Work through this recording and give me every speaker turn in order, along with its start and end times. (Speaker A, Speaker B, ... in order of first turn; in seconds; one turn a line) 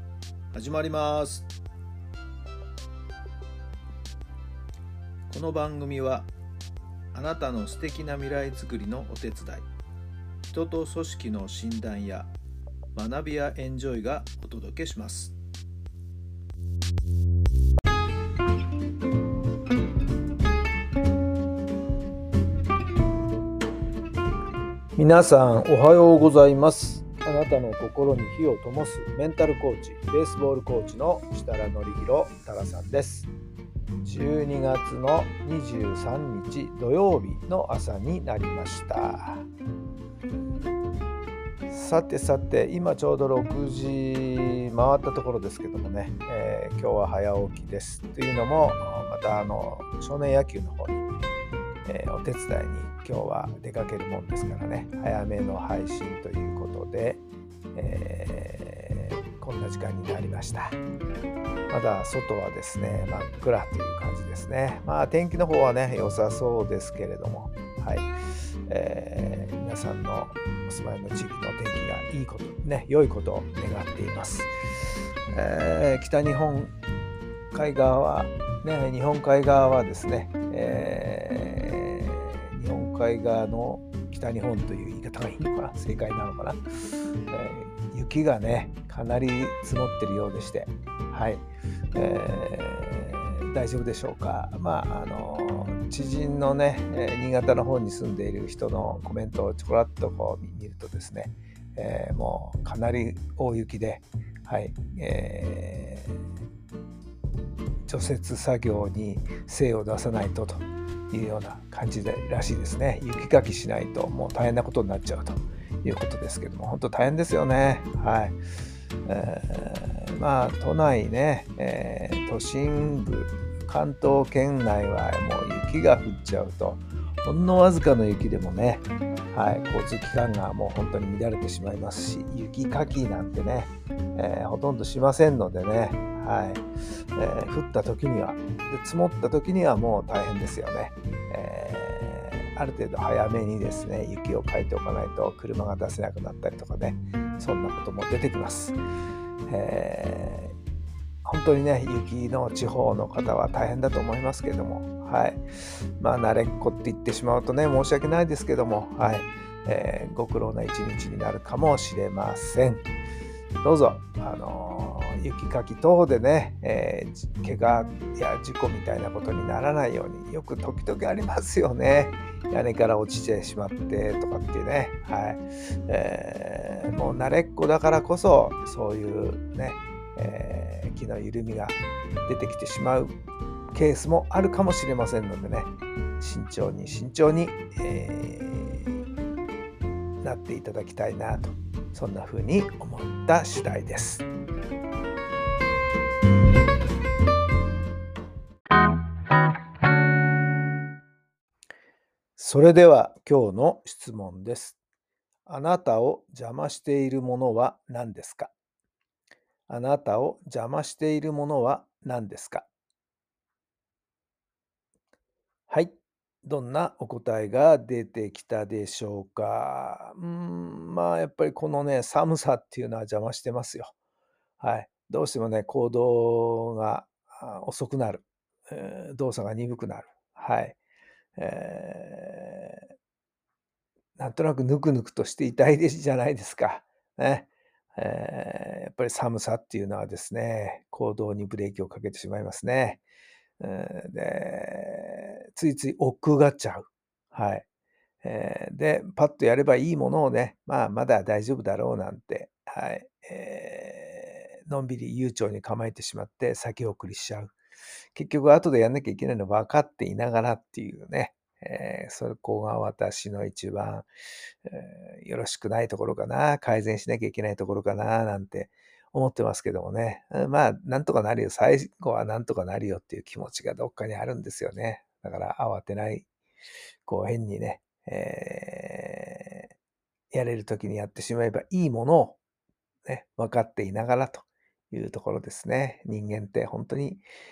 Speaker A: 0.5-1.5
Speaker A: 5.3-6.3
Speaker A: 7.1-9.7
Speaker A: 10.5-12.3
Speaker A: 12.9-15.3
Speaker A: 24.9-33.3
Speaker A: 34.0-39.4
Speaker A: 41.7-51.0
Speaker A: 51.9-60.8
Speaker A: 61.7-68.1
Speaker A: 68.7-74.5
Speaker A: 75.3-76.7
Speaker A: 77.5-86.6
Speaker A: 87.3-106.2
Speaker A: 107.9-118.4
Speaker A: 119.0-148.8
Speaker A: 149.5-150.5
Speaker A: 151.2-155.4
Speaker A: 156.0-162.9
Speaker A: 163.6-183.1
Speaker A: 183.7-188.9
Speaker A: 190.2-194.2
Speaker A: 202.4-204.8
Speaker A: 205.4-208.5
Speaker A: 209.7-212.7
Speaker A: 215.7-223.9
Speaker A: 224.6-230.8
Speaker A: 231.3-232.8
Speaker A: 234.2-243.0
Speaker A: 243.6-247.6
Speaker A: 248.2-257.6
Speaker A: 258.1-264.1
Speaker A: 264.6-276.2
Speaker A: 277.0-279.7
Speaker A: 280.3-282.4
Speaker A: 283.1-287.2